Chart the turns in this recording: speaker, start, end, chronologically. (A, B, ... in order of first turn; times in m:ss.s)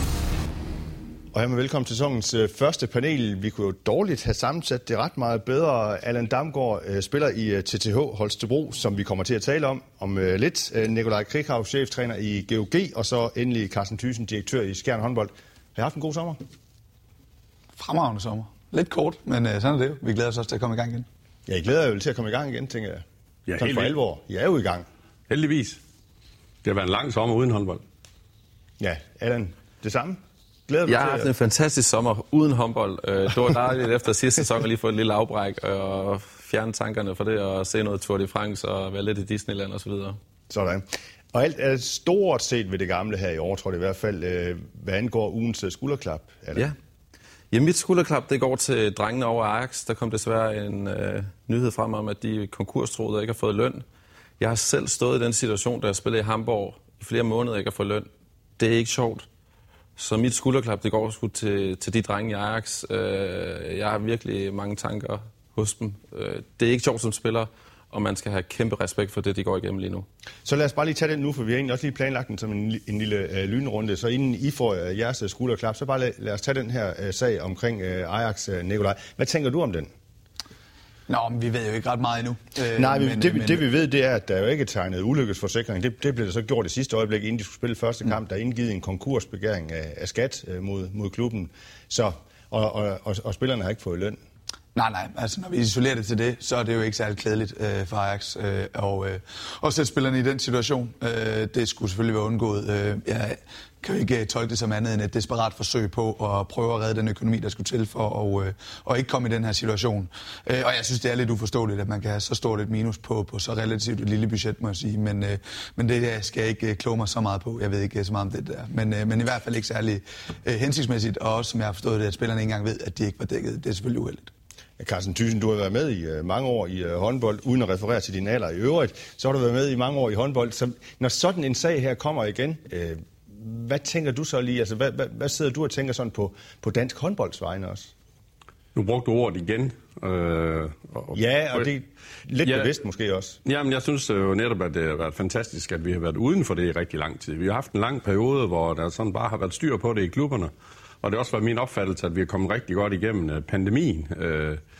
0:01.3-0:16.4 A
0:17.8-0:21.1 B
0:21.5-0:23.0 A
0:23.5-0:23.9 C
0:23.6-0:24.8 A
0:25.3-0:25.8 C
0:26.6-0:27.8 C
0:28.8-0:31.3 A
0:30.9-0:40.2 D
0:40.5-0:46.7 A
0:47.5-0:53.8 D
0:54.4-0:58.1 D
0:58.6-0:59.2 D
1:00.0-1:10.0 D
1:10.4-1:19.9 A
1:21.1-1:23.6 B
1:22.8-1:34.2 A
1:34.7-2:04.3 B
2:04.8-2:17.9 A
2:18.7-2:21.7 C
2:21.1-2:23.4 A
2:22.4-2:22.7 C
2:23.4-2:30.5 C
2:31.0-2:34.6 C